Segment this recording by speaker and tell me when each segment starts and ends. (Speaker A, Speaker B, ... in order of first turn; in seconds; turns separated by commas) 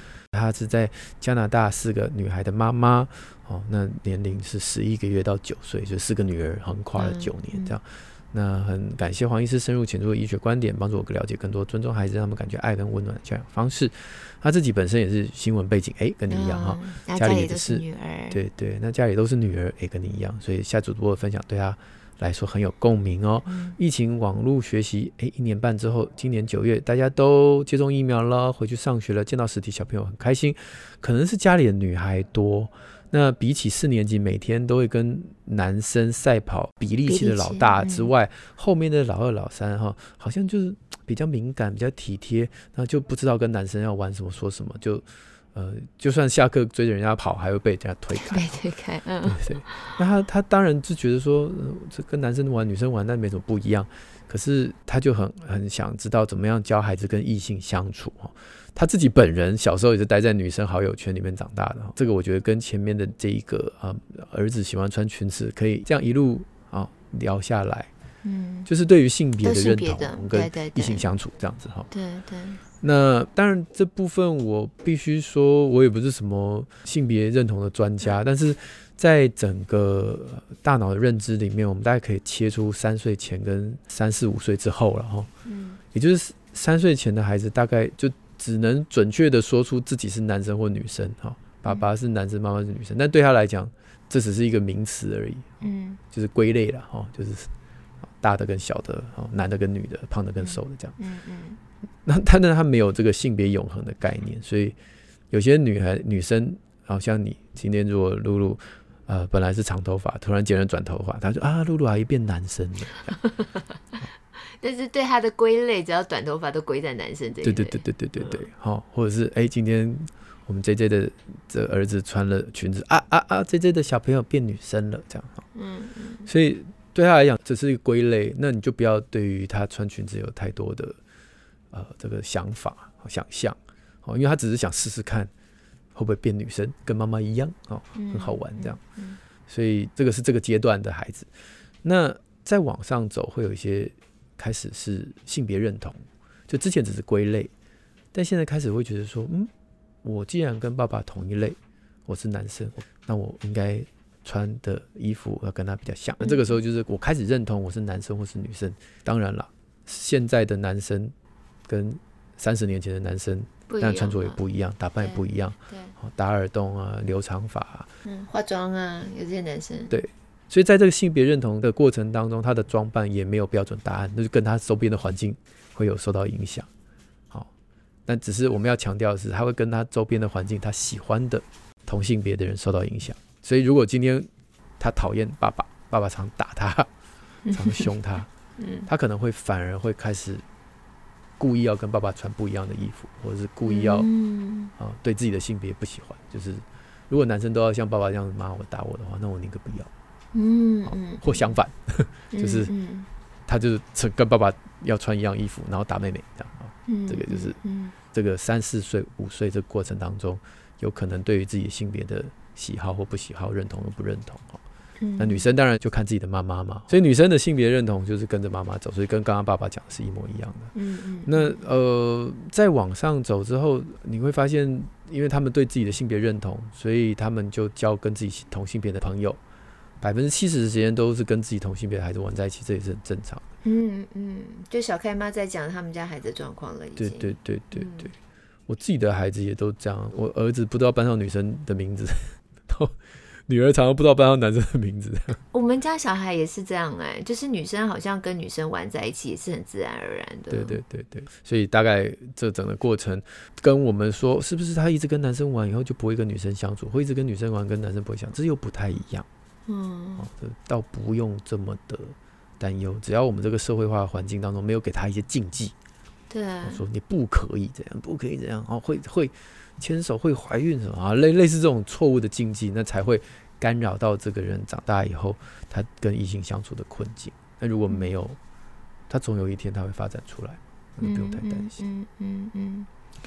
Speaker A: 0.3-48.5, Speaker B: 7.0-7.8, Speaker B: 16.3-18.4, Speaker B: 23.5-23.8, Speaker B: 37.0-38.1, Speaker B: 48.1-49.9, Speaker A: 49.2-67.9, Speaker B: 68.2-68.7, Speaker A: 68.7-71.9, Speaker B: 69.4-71.1, Speaker B: 71.9-72.6, Speaker A: 72.8-85.3, Speaker B: 85.5-85.8, Speaker A: 85.9-97.5, Speaker B: 95.6-96.0, Speaker A: 98.1-101.0, Speaker B: 100.4-101.6, Speaker A: 102.0-104.8, Speaker A: 105.3-113.2, Speaker B: 113.2-113.7, Speaker B: 114.6-118.4, Speaker A: 117.4-125.4, Speaker B: 125.5-126.3, Speaker A: 126.3-131.0, Speaker A: 131.7-135.3, Speaker A: 135.9-138.8, Speaker B: 137.9-139.2, Speaker A: 139.5-141.3, Speaker A: 141.8-147.5, Speaker A: 148.1-149.5, Speaker A: 150.0-161.1, Speaker B: 156.2-156.6, Speaker A: 161.7-167.9, Speaker B: 163.7-164.4, Speaker B: 165.0-165.9, Speaker B: 168.1-169.9, Speaker A: 169.9-176.7, Speaker A: 178.1-184.3, Speaker A: 184.8-186.9, Speaker B: 187.5-187.9, Speaker A: 187.5-188.3, Speaker B: 188.6-188.9, Speaker A: 188.9-190.4, Speaker A: 191.4-194.1, Speaker B: 193.6-194.7, Speaker A: 194.8-199.9, Speaker B: 200.3-201.5, Speaker A: 200.9-202.7, Speaker B: 202.3-203.1, Speaker A: 203.5-207.6, Speaker B: 206.9-207.9, Speaker A: 208.1-214.6, Speaker B: 215.0-215.5, Speaker A: 215.2-220.7, Speaker B: 220.8-221.6, Speaker A: 221.2-229.4, Speaker A: 230.0-233.4, Speaker B: 233.6-238.1, Speaker A: 237.0-238.1, Speaker A: 238.7-245.4, Speaker B: 245.5-250.8, Speaker A: 250.5-259.3, Speaker B: 259.7-260.3, Speaker A: 260.2-265.7, Speaker B: 266.3-266.8, Speaker A: 266.6-278.4, Speaker A: 279.1-281.8, Speaker B: 281.0-282.9